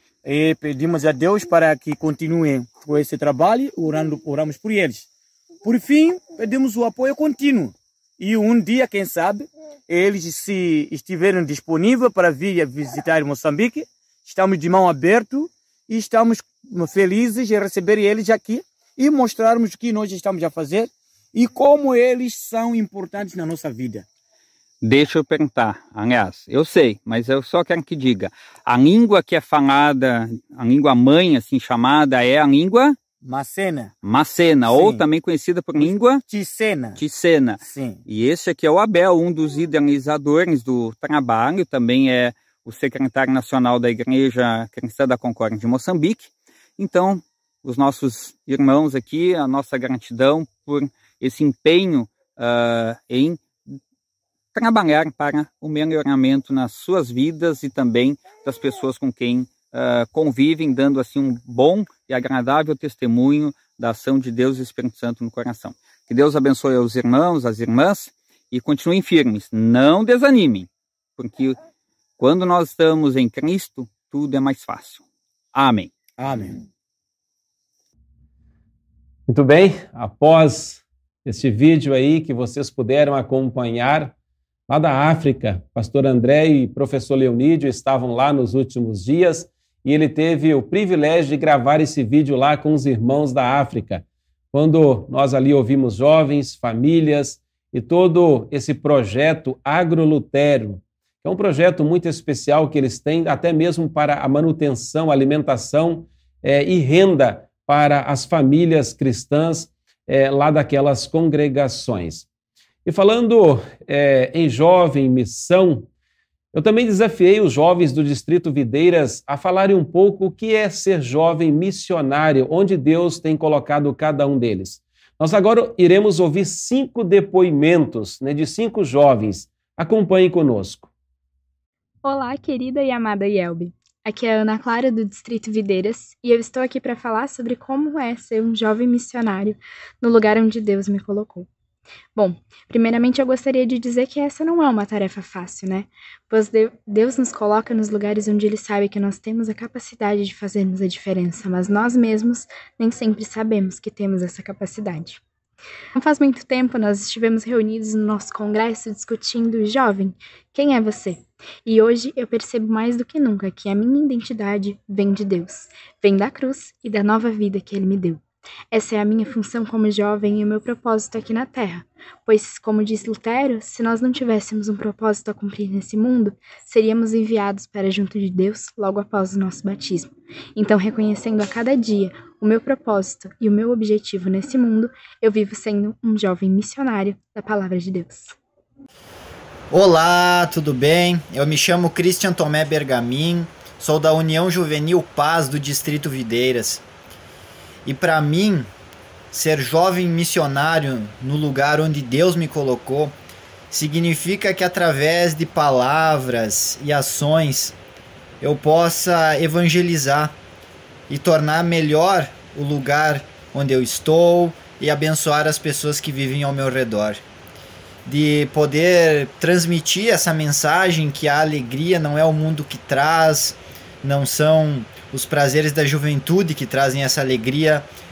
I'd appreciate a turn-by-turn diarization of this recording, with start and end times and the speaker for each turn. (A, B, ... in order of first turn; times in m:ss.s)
0:00.2-0:05.1 A
0:05.6-0:24.0 A
0:24.8-0:33.0 B
0:33.2-0:33.9 A
0:34.0-0:36.2 B
0:34.6-0:35.0 A
0:35.8-0:37.0 A
0:37.0-0:53.8 B
0:37.6-0:38.0 A
0:54.5-1:11.6 B
1:12.2-1:15.0 B
1:15.5-1:15.9 B
1:16.2-1:16.6 A
1:19.3-1:24.1 C
1:24.7-1:52.2 C
1:52.8-1:55.9 C
1:56.5-2:10.9 C
2:12.0-2:21.5 D
2:22.1-2:35.2 D
2:35.9-3:08.4 D
3:09.7-3:16.8 E
3:17.8-3:18.7 E
3:19.3-3:23.2 E
3:23.7-3:27.8 E
3:28.4-3:30.4 E
3:31.1-3:37.2 E
3:38.0-3:47.9 E